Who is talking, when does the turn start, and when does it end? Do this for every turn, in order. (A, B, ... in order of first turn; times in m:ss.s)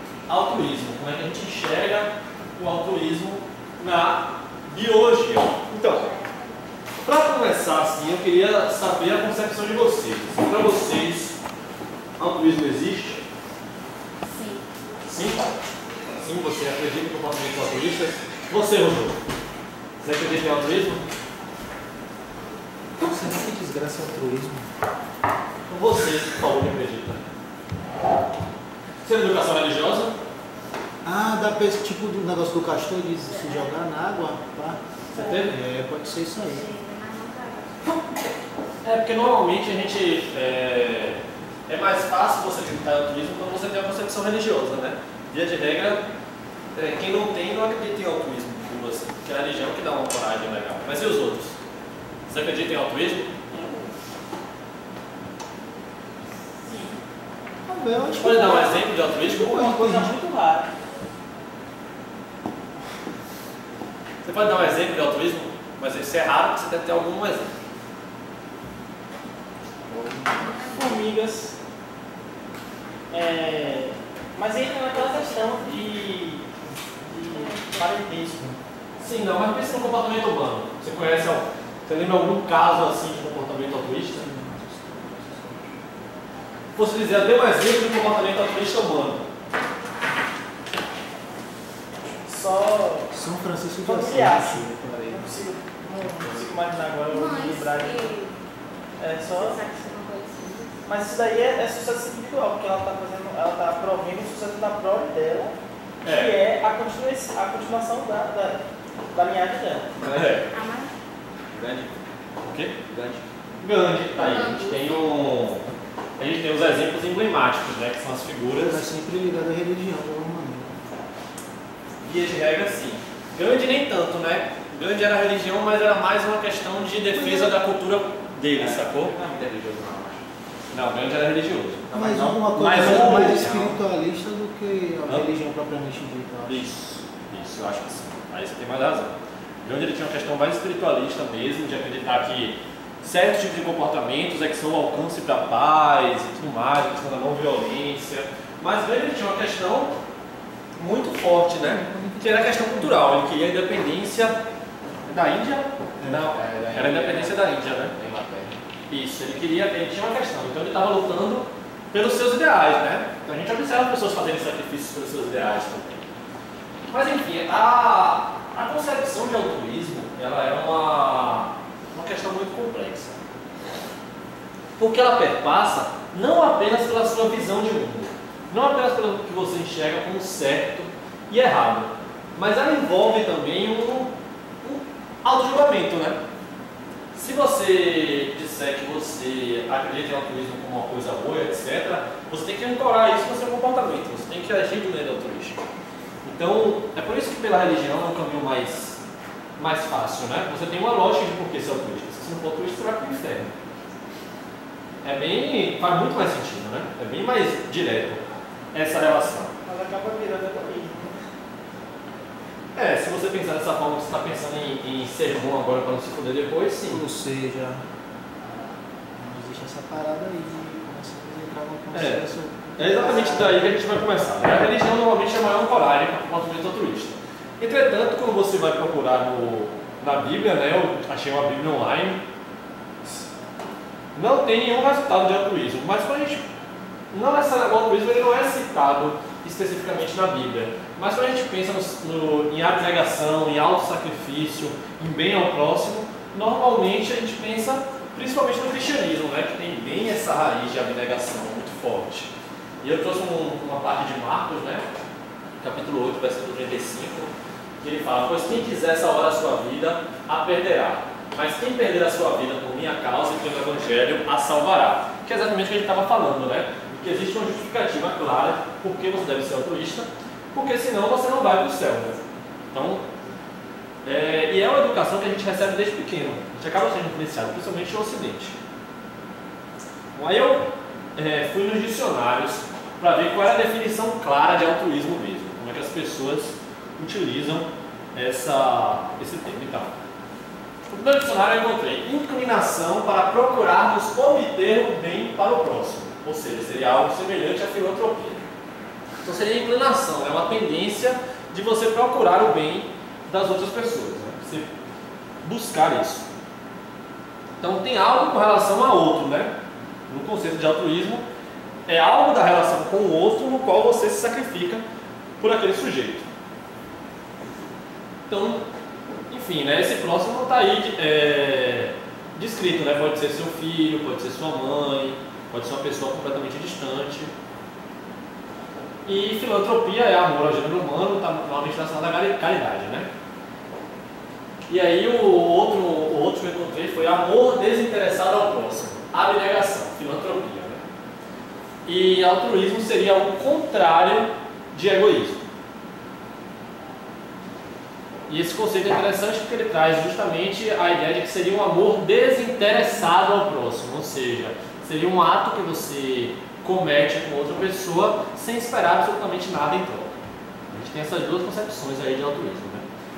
0:00.3-0:06.1 A
0:05.8-0:06.3 B
0:07.0-0:11.4 A
0:12.2-0:13.2 A
0:14.2-0:14.6 B
0:15.0-0:15.5 A
0:16.2-0:19.2 A
0:20.0-0:21.0 A
0:23.0-0:24.7 C
0:25.7-0:27.2 A
0:29.0-0:30.1 A
0:31.0-0:34.8 C
0:33.3-0:33.7 B
0:35.1-0:35.5 A
0:35.2-0:35.5 B
0:35.4-0:36.7 C
0:36.4-0:38.0 B
0:38.8-0:46.0 A
0:46.7-0:51.6 A
0:52.3-0:53.5 A
0:57.6-0:58.8 C
0:58.1-0:59.8 A
0:58.2-0:58.8 D
0:59.3-1:00.7 D
0:59.4-1:00.1 C
1:04.2-1:07.5 A
1:10.1-1:11.5 D
1:10.4-1:11.0 B
1:13.1-1:18.6 D
1:14.9-1:15.7 B
1:17.3-1:17.7 B
1:19.0-1:24.2 A
1:24.1-1:25.7 C
1:26.8-1:29.3 A
1:32.2-1:33.1 D
1:33.1-1:35.4 C
1:33.8-1:38.1 D
1:37.1-1:38.3 B
1:39.0-1:39.6 D
1:39.3-1:40.8 B
1:40.8-1:48.6 D
1:46.0-1:46.3 A
1:49.1-1:50.0 D
1:50.0-1:50.5 A
1:50.5-1:50.9 B
1:51.5-1:52.0 E
1:52.4-1:52.8 A
1:52.8-1:53.3 E
1:53.6-1:55.6 A
1:54.2-1:55.0 B
1:56.2-1:58.8 A
1:58.6-2:00.8 C
2:02.0-2:09.1 A
2:07.1-2:07.5 E
2:08.5-2:10.2 E
2:10.7-2:11.9 A
2:11.9-2:13.8 E
2:11.9-2:16.6 C
2:12.5-2:13.8 A
2:16.5-2:29.9 A
2:30.8-2:34.4 A
2:31.6-2:33.0 C
2:35.1-2:38.0 A
2:36.0-2:36.3 C
2:36.2-2:37.4 E
2:37.9-2:38.6 E
2:38.9-2:46.0 A
2:46.9-2:53.2 A
2:54.8-3:06.2 A
3:07.1-3:15.6 A
3:16.2-3:19.0 A
3:19.6-3:23.5 A
3:25.0-3:29.5 A
3:29.6-3:31.1 D
3:32.7-3:37.0 A
3:36.9-3:37.8 C
3:39.1-3:43.6 C
3:41.9-3:42.2 A
3:42.8-3:52.2 A
3:54.1-3:56.4 A
3:57.1-4:12.3 A
4:12.8-4:14.8 A
4:15.6-4:32.2 A
4:32.7-4:33.0 A
4:34.0-4:38.5 A
4:40.1-4:49.9 A
4:50.9-4:58.4 A
4:59.2-5:04.7 A
5:05.4-5:06.2 A
5:07.6-5:09.5 A
5:10.1-5:11.2 A
5:11.9-5:14.8 A
5:15.4-5:16.2 A
5:18.3-5:18.6 A
5:19.3-5:27.3 A
5:29.0-5:33.1 A
5:34.7-5:40.8 A
5:41.8-5:45.4 A
5:48.3-6:00.1 A
6:00.7-6:02.8 A